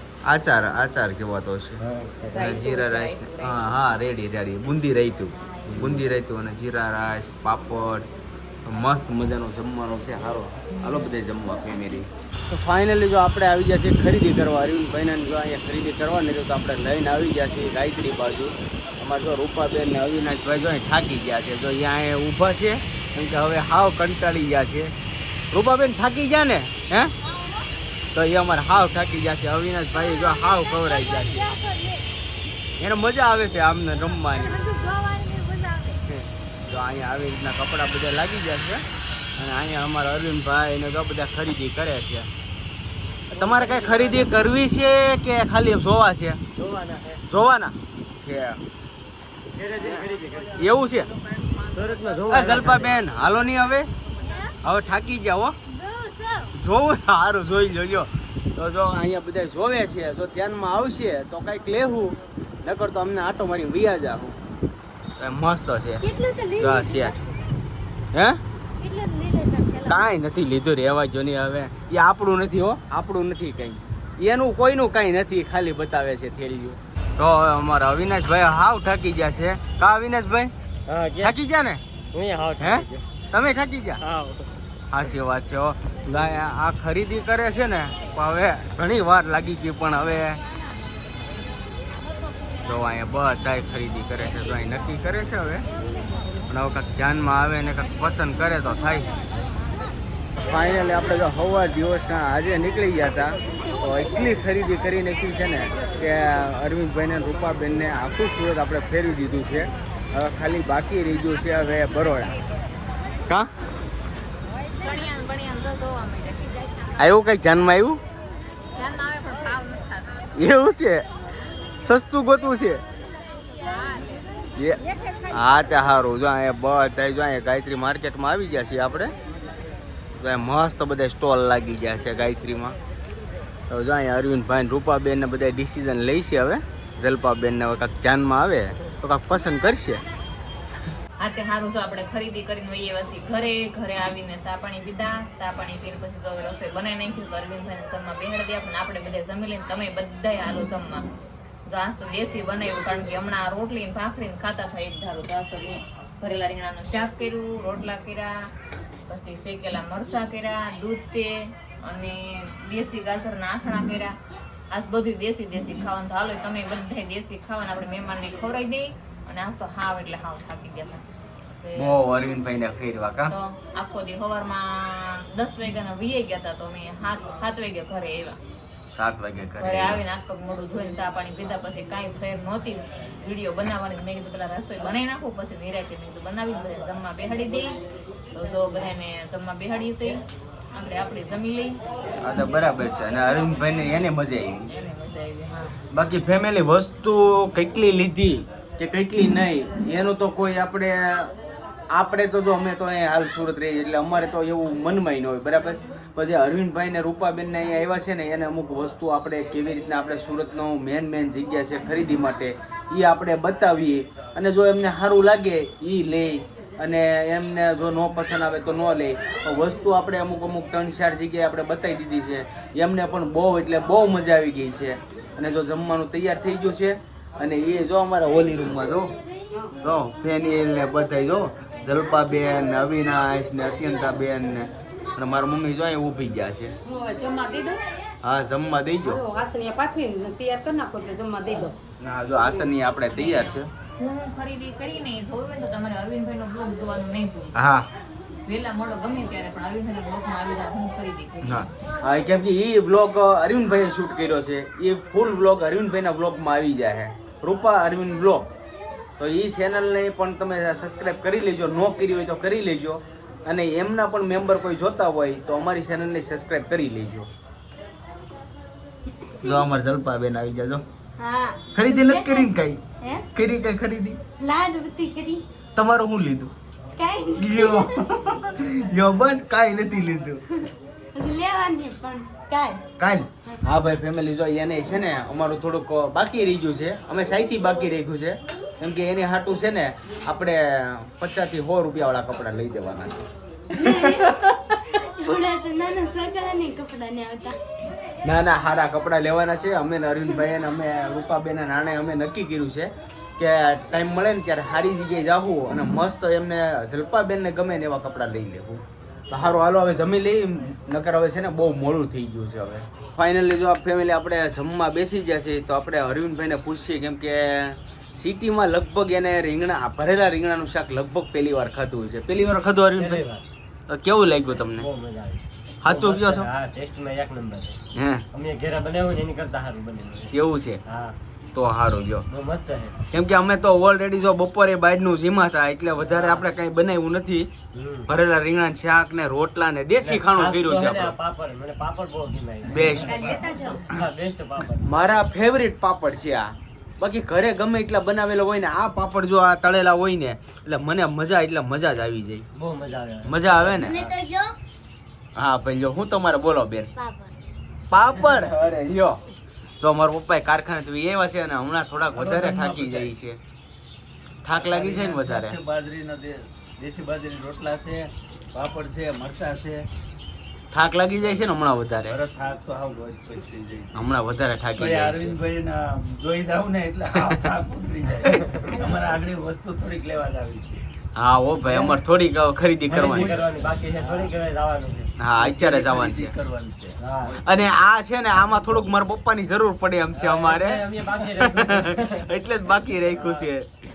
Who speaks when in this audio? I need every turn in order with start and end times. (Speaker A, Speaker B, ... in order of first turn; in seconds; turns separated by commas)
Speaker A: 0.3-1.8, Speaker B: 1.8-2.5, Speaker C: 2.3-3.6, Speaker A: 2.3-8.1, Speaker B: 5.7-6.0, Speaker A: 8.6-24.9, Speaker A: 25.5-27.1, Speaker A: 28.1-31.5, Speaker D: 30.0-32.0, Speaker A: 32.8-34.6, Speaker D: 34.3-36.0, Speaker A: 36.1-38.8, Speaker A: 39.4-42.3, Speaker A: 43.4-46.4, Speaker B: 43.4-44.3, Speaker B: 46.6-47.2, Speaker A: 47.3-48.6, Speaker B: 49.6-50.5, Speaker A: 50.5-51.1, Speaker B: 51.7-52.9, Speaker A: 52.3-53.9, Speaker D: 54.2-54.5, Speaker A: 54.6-55.5, Speaker D: 55.7-56.5, Speaker A: 56.5-64.3, Speaker A: 65.2-66.0, Speaker D: 66.0-67.2, Speaker A: 66.6-67.2, Speaker A: 68.1-68.4, Speaker D: 68.8-70.0, Speaker A: 69.8-80.5, Speaker B: 80.9-81.3, Speaker A: 81.2-81.8, Speaker B: 82.1-83.0, Speaker A: 82.6-84.0, Speaker B: 84.0-84.4, Speaker A: 84.9-90.4, Speaker A: 92.6-95.6, Speaker A: 96.5-99.1, Speaker A: 100.5-112.3, Speaker C: 114.8-117.1, Speaker A: 117.0-118.0, Speaker C: 118.7-120.2, Speaker A: 120.3-121.0, Speaker A: 121.8-122.8, Speaker C: 123.6-124.2, Speaker A: 124.5-129.1, Speaker A: 130.2-132.8, Speaker A: 133.7-140.0, Speaker C: 141.2-151.1, Speaker C: 151.7-158.5, Speaker C: 159.1-164.2, Speaker C: 164.7-171.0, Speaker C: 171.6-172.0, Speaker A: 171.7-173.3, Speaker C: 173.3-178.4, Speaker A: 178.9-180.0, Speaker C: 179.6-187.8, Speaker C: 188.3-190.2, Speaker C: 190.7-191.8, Speaker A: 192.2-194.7, Speaker C: 194.7-195.8, Speaker A: 195.9-201.3, Speaker A: 201.9-229.1, Speaker A: 229.8-236.7, Speaker E: 236.8-237.8, Speaker A: 238.2-239.2, Speaker E: 239.0-241.8, Speaker A: 242.0-243.7, Speaker C: 243.1-247.6, Speaker A: 247.5-247.8, Speaker C: 248.4-251.7, Speaker A: 251.4-258.5, Speaker A: 259.2-267.3, Speaker A: 269.4-270.8, Speaker D: 271.2-273.2, Speaker A: 271.7-272.8, Speaker A: 273.3-274.2, Speaker D: 274.4-275.4, Speaker A: 275.8-276.5, Speaker D: 277.0-277.9, Speaker A: 277.4-280.4, Speaker D: 281.1-282.8, Speaker A: 283.0-293.2, Speaker D: 293.8-294.3, Speaker A: 293.8-294.4, Speaker D: 295.0-297.6, Speaker A: 298.2-323.2, Speaker B: 322.9-323.4, Speaker A: 323.9-324.9, Speaker B: 324.8-327.8, Speaker A: 325.8-326.5, Speaker A: 327.9-328.2, Speaker B: 328.3-330.3, Speaker A: 330.3-330.8, Speaker B: 330.9-331.1, Speaker A: 331.5-332.2, Speaker B: 332.3-333.0, Speaker A: 333.1-337.5, Speaker B: 336.0-336.4, Speaker B: 337.7-338.1, Speaker A: 338.1-341.1, Speaker B: 340.0-344.9, Speaker A: 342.6-343.3, Speaker F: 342.8-343.4, Speaker D: 343.0-343.8, Speaker A: 344.8-352.4, Speaker B: 352.5-354.2, Speaker A: 353.2-354.0, Speaker D: 353.8-354.5, Speaker A: 355.4-356.9, Speaker D: 357.0-357.3, Speaker A: 357.9-359.2, Speaker A: 359.8-363.4, Speaker F: 362.1-363.1, Speaker A: 364.4-365.6, Speaker F: 364.5-369.8, Speaker A: 370.7-372.2, Speaker F: 372.1-374.1, Speaker A: 373.9-375.4, Speaker F: 374.8-380.8, Speaker A: 381.2-383.4, Speaker F: 381.7-381.9, Speaker B: 382.9-385.1, Speaker F: 383.0-384.3, Speaker A: 385.2-386.3, Speaker F: 385.3-387.7, Speaker B: 387.0-387.4, Speaker A: 387.4-393.8, Speaker B: 390.1-392.3, Speaker B: 393.0-393.5